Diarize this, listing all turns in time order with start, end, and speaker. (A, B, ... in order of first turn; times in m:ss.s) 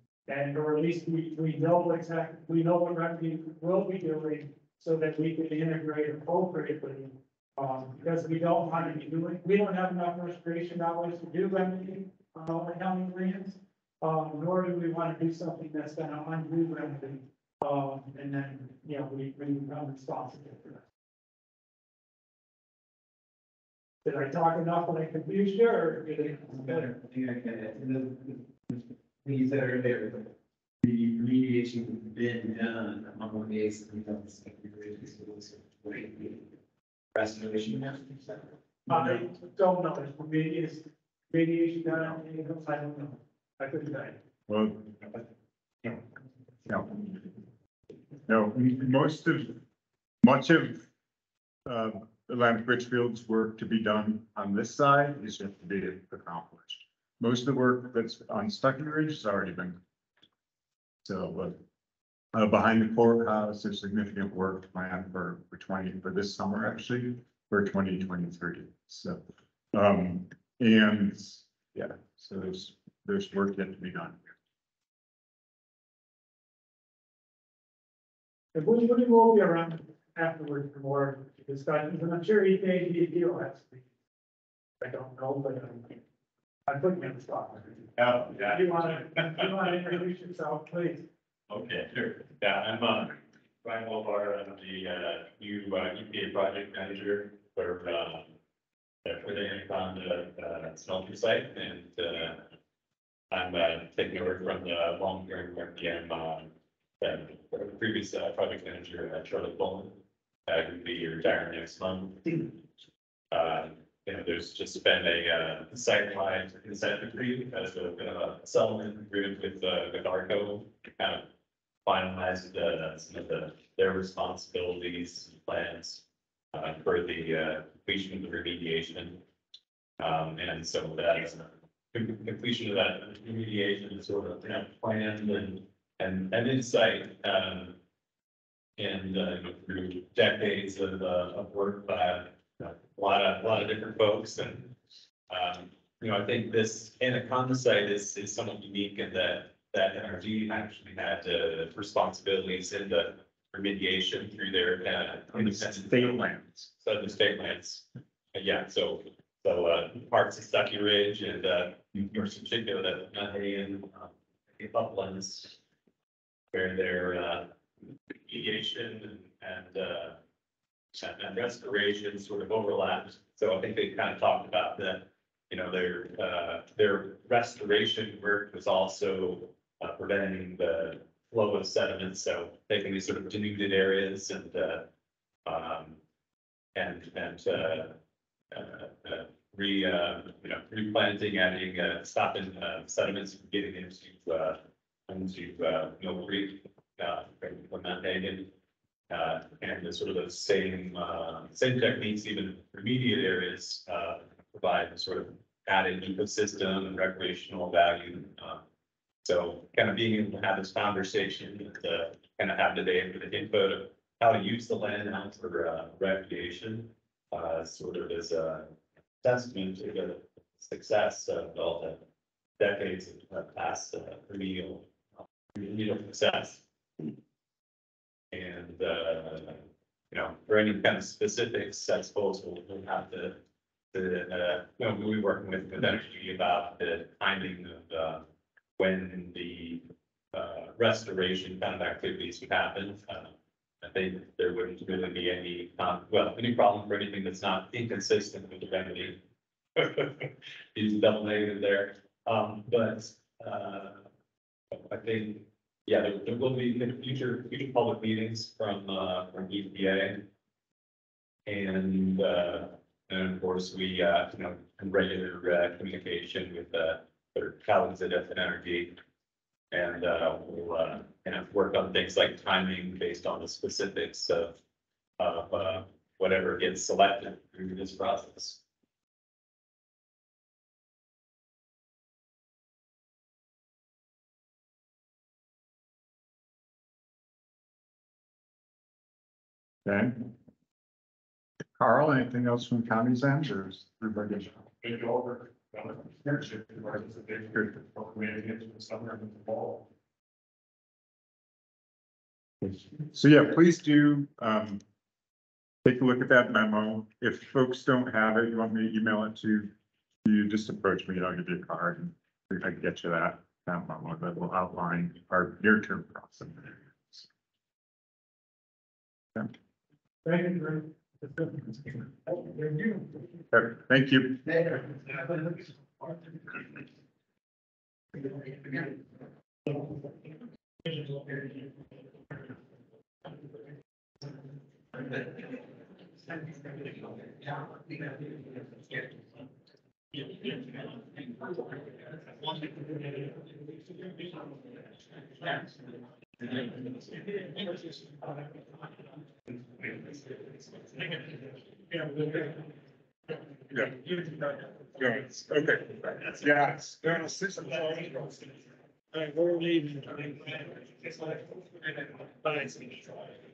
0:00.3-0:20.8 A
0:24.0-0:27.0 A
0:26.5-0:36.5 B
0:37.1-0:38.5 B
0:38.9-0:44.2 A
0:38.9-0:39.2 C
0:44.5-0:45.2 C
0:46.6-0:47.0 C
0:48.3-0:49.6 C
0:50.2-0:50.8 C
0:51.6-0:59.8 C
1:01.0-1:01.6 C
1:02.3-1:09.2 C
1:09.7-1:14.3 C
1:18.5-1:23.8 A
1:24.8-1:26.0 A
1:26.7-1:31.1 A
1:28.0-1:29.7 D
1:31.5-1:38.3 D
1:39.0-1:42.4 D
1:43.3-1:52.6 D
1:53.3-2:01.2 D
2:01.8-2:06.0 D
2:06.5-2:09.2 D
2:10.0-2:17.8 D
2:18.8-2:24.7 D
2:25.3-2:45.6 D
2:35.3-2:36.7 C
2:46.5-2:47.5 D
2:48.2-2:50.2 D
2:50.9-3:04.9 D
3:05.4-3:06.0 D
3:06.7-3:08.0 D
3:08.5-3:18.5 D
3:19.1-3:28.6 D
3:29.2-3:42.0 D
3:42.6-3:44.9 D
3:45.6-3:46.6 D
3:48.3-3:53.4 D
3:53.9-3:58.2 D
3:58.8-4:09.2 D
4:09.8-4:14.1 D
4:14.7-4:20.3 D
4:21.4-4:29.0 D
4:29.7-4:34.6 D
4:35.2-4:38.6 D
4:49.9-4:50.3 C
4:51.8-4:54.6 C
4:55.0-4:55.4 E
4:56.9-4:57.8 E
4:58.6-4:59.6 E
5:03.0-5:04.8 C
5:05.8-5:09.7 C
5:10.2-5:17.3 C
5:20.2-5:23.2 A
5:23.5-5:24.6 C
5:25.1-5:25.5 A
5:30.9-5:31.4 A
5:51.9-5:52.3 A
5:53.7-5:54.1 C
5:55.0-5:58.4 C
5:59.1-6:03.3 A